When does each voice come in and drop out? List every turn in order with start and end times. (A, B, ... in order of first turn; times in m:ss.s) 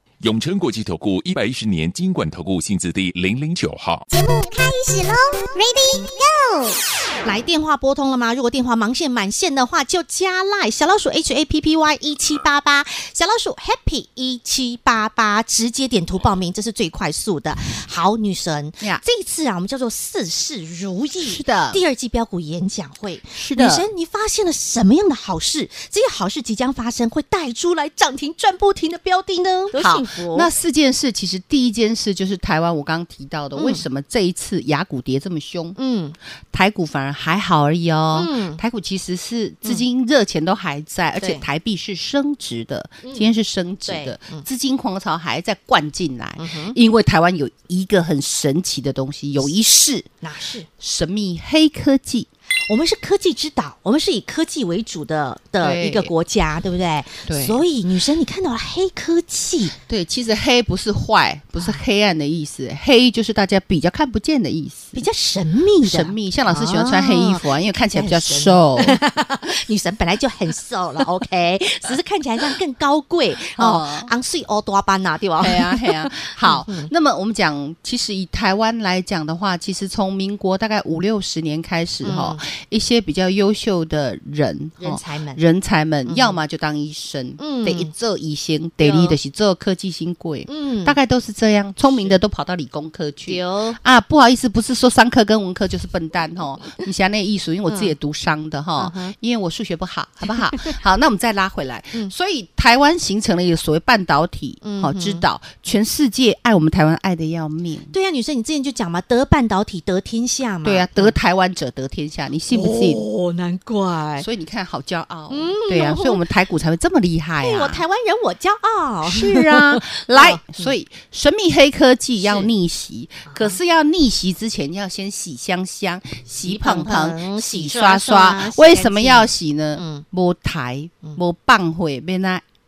0:00.2-0:04.0 A
0:04.1-0:06.8 B
0:07.2-0:30.5 C
0:21.2-0:21.8 D
0:23.3-0:23.8 D
0:29.7-0:35.8 D
0:33.6-0:33.8 C
0:35.8-0:36.2 C
0:36.5-0:50.0 D
0:38.1-0:38.6 C
0:41.2-0:41.4 C
0:43.0-0:43.3 C
0:43.8-0:44.4 C
0:46.4-0:46.8 C
0:50.2-0:50.7 C
0:50.8-0:52.3 D
0:52.7-0:59.8 C
0:55.6-0:56.1 D
0:57.2-0:57.6 D
0:59.9-1:05.0 D
1:04.9-1:16.9 C
1:05.8-1:09.0 D
1:13.5-1:14.1 D
1:15.4-1:47.9 D
1:22.0-1:22.4 C
1:24.8-1:25.4 C
1:26.0-1:26.4 C
1:27.4-1:27.9 C
1:28.8-1:29.2 C
1:30.5-1:31.0 C
1:31.8-1:32.1 C
1:33.2-1:33.8 C
1:37.7-1:37.9 C
1:38.8-1:39.1 C
1:44.6-1:45.2 C
1:47.9-1:51.2 C
1:50.6-1:53.0 D
1:52.5-1:54.3 C
1:54.2-1:57.8 D
1:55.3-1:56.2 C
1:57.4-2:00.7 C
1:59.0-2:12.4 D
2:02.2-2:02.5 C
2:03.3-2:03.6 C
2:06.4-2:10.0 C